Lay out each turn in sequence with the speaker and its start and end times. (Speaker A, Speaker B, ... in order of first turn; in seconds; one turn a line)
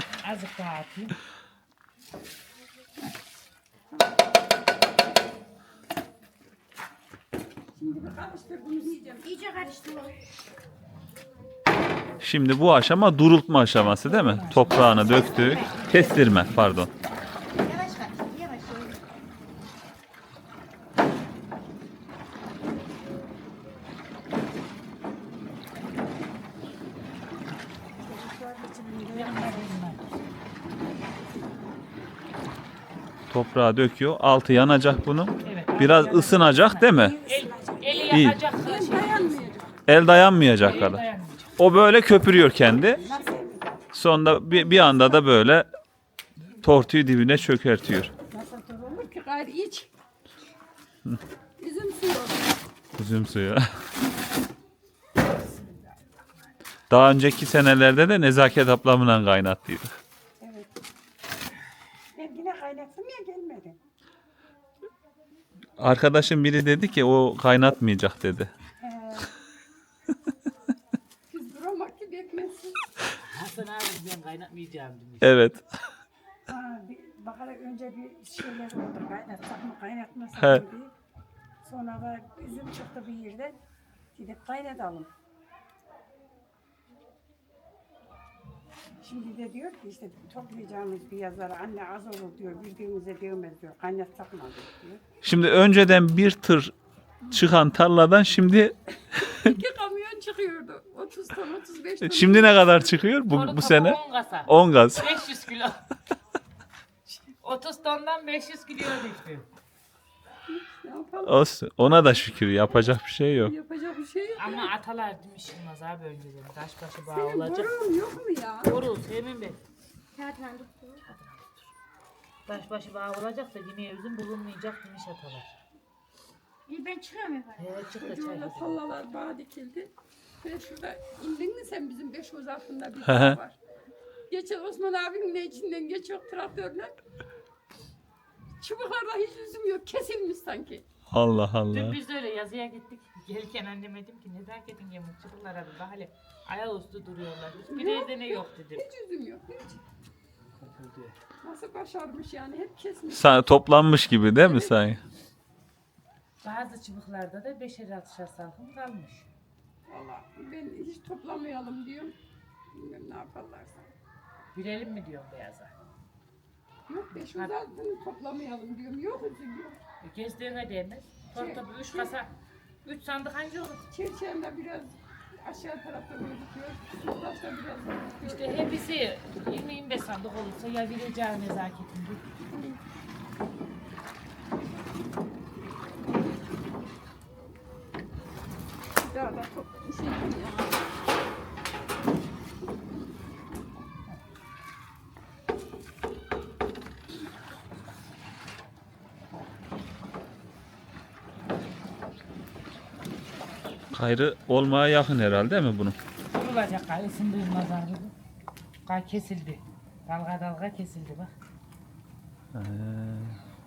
Speaker A: 0.2-1.2
Speaker B: 7.7-9.3
Speaker C: 9.2-10.2
Speaker D: 12.2-16.9
Speaker A: 14.1-15.2
Speaker C: 15.0-16.1
Speaker C: 17.6-19.0
Speaker E: 28.0-29.8
Speaker A: 29.1-30.0
Speaker D: 33.3-37.2
Speaker A: 35.4-39.5
Speaker E: 37.2-37.7
Speaker D: 38.1-38.4
Speaker B: 38.5-39.8
Speaker D: 39.9-41.0
Speaker A: 40.6-41.6
Speaker D: 41.6-43.0
Speaker B: 42.9-43.7
Speaker E: 43.0-43.5
Speaker D: 43.9-45.7
Speaker D: 46.6-48.1
Speaker B: 48.3-49.9
Speaker B: 51.6-52.5
Speaker D: 53.0-53.7
Speaker D: 56.9-59.9
Speaker E: 60.4-60.7
Speaker E: 62.1-63.8
Speaker D: 65.8-68.5
Speaker E: 68.9-69.2
Speaker B: 71.3-72.8
Speaker A: 73.2-75.3
Speaker D: 75.2-75.8
Speaker E: 76.5-80.9
Speaker D: 80.4-80.6
Speaker E: 81.6-83.6
Speaker E: 84.2-85.1
Speaker E: 89.0-95.0
Speaker D: 95.2-96.7
Speaker D: 97.3-98.8
Speaker B: 99.2-102.9
Speaker D: 102.0-105.2
Speaker A: 103.3-105.8
Speaker A: 107.4-109.5
Speaker B: 110.5-111.4
Speaker D: 111.2-113.5
Speaker B: 113.4-114.7
Speaker A: 114.4-117.7
Speaker B: 117.1-118.8
Speaker A: 118.6-119.6
Speaker C: 120.1-121.0
Speaker A: 121.1-121.5
Speaker A: 122.5-125.5
Speaker C: 126.7-127.8
Speaker A: 127.6-128.8
Speaker B: 127.9-133.6
Speaker D: 133.1-133.4
Speaker B: 134.3-136.9
Speaker B: 138.6-140.8
Speaker D: 141.1-142.0
Speaker A: 141.7-148.8
Speaker B: 147.7-149.8
Speaker A: 150.6-151.1
Speaker B: 151.4-153.3
Speaker D: 153.1-155.0
Speaker B: 154.4-154.7
Speaker A: 156.4-159.3
Speaker B: 159.9-162.2
Speaker B: 162.7-163.9
Speaker A: 164.5-165.7
Speaker B: 166.9-169.8
Speaker A: 167.1-167.6
Speaker A: 170.0-172.3
Speaker B: 171.3-172.1
Speaker A: 172.8-173.9
Speaker B: 173.9-178.7
Speaker A: 178.2-182.2
Speaker B: 182.5-182.8
Speaker B: 189.0-190.9
Speaker D: 203.9-206.0
Speaker A: 206.3-208.1
Speaker A: 208.9-211.3
Speaker D: 212.5-213.4